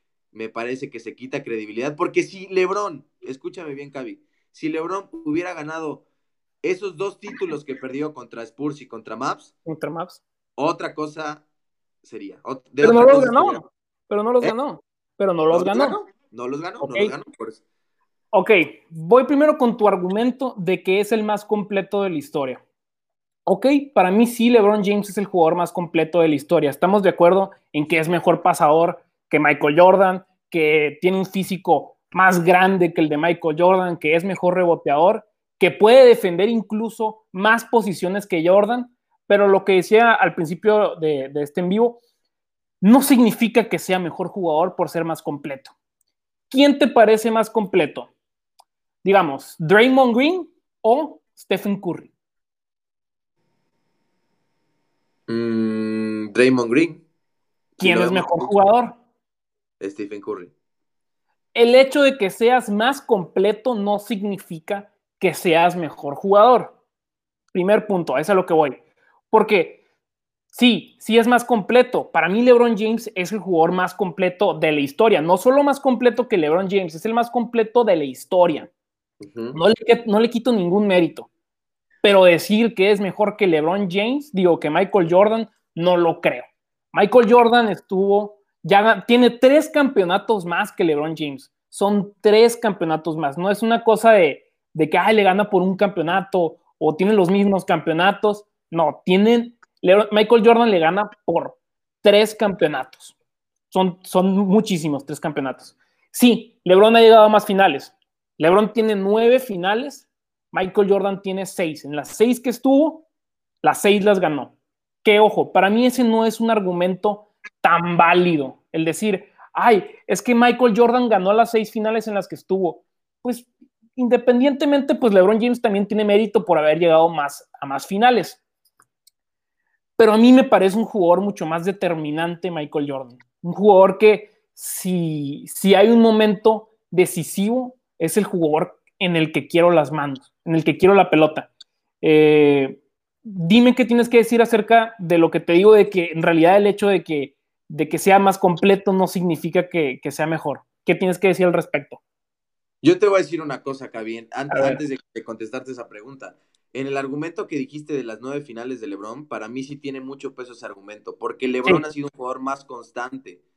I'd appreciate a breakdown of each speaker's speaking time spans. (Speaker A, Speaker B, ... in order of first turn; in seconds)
Speaker A: 0.3-6.0, 6.6-9.5, 10.6-11.4, 12.0-13.7, 15.5-17.6, 55.3-57.0, 57.8-58.6, 59.8-60.5, 79.2-79.6, 152.8-163.4
Speaker B: 9.7-10.2, 12.8-15.9, 16.8-17.1, 18.3-22.6, 23.4-42.0, 42.8-45.7, 46.5-48.1, 49.0-52.1, 57.8-59.0, 61.5-66.7, 67.5-69.8, 70.5-78.7, 79.5-81.3, 82.0-103.1, 103.7-113.0, 113.6-128.4, 130.0-141.5, 142.0-152.0, 154.5-154.8